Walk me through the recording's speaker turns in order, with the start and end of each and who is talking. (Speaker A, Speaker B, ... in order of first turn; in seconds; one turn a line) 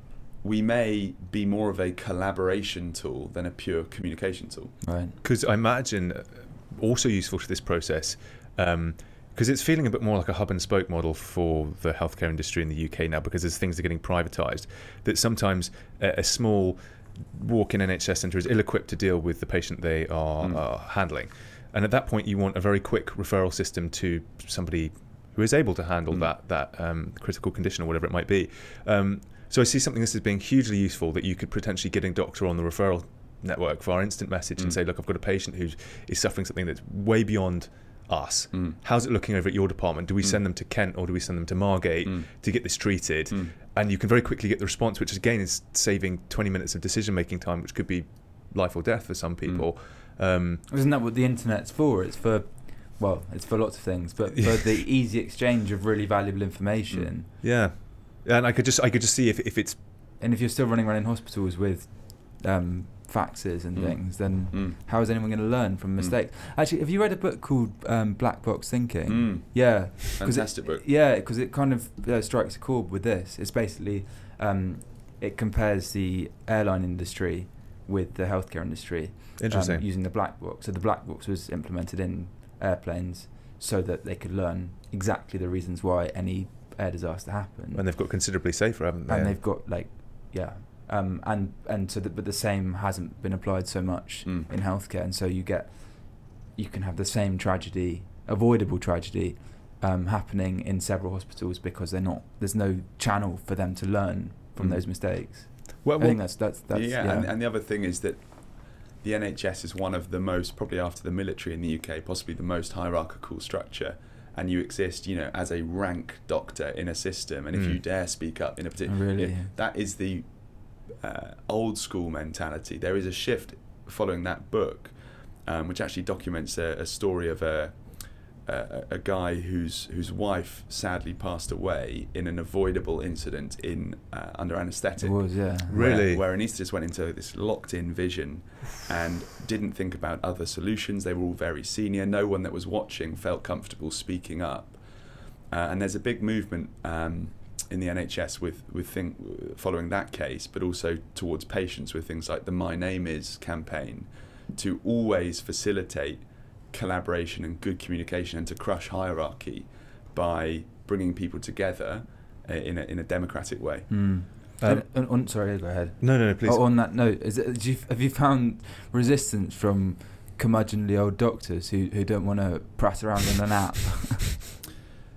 Speaker A: 0.4-4.8
Speaker B: 4.8-5.2
Speaker C: 5.2-50.6
Speaker B: 50.7-57.3
Speaker C: 54.4-54.7
Speaker C: 57.4-59.9
Speaker B: 60.2-87.9
Speaker A: 63.7-64.8
Speaker A: 69.1-70.8
Speaker C: 79.4-79.8
Speaker C: 87.7-89.4
Speaker B: 89.0-107.3
Speaker A: 104.5-104.8
Speaker C: 105.8-106.3
Speaker A: 106.7-144.8
Speaker B: 118.9-119.5
Speaker B: 135.0-135.9
Speaker C: 135.7-136.2
Speaker A: 145.5-163.9
Speaker B: 163.9-174.4
Speaker C: 164.6-165.3
Speaker C: 166.0-166.6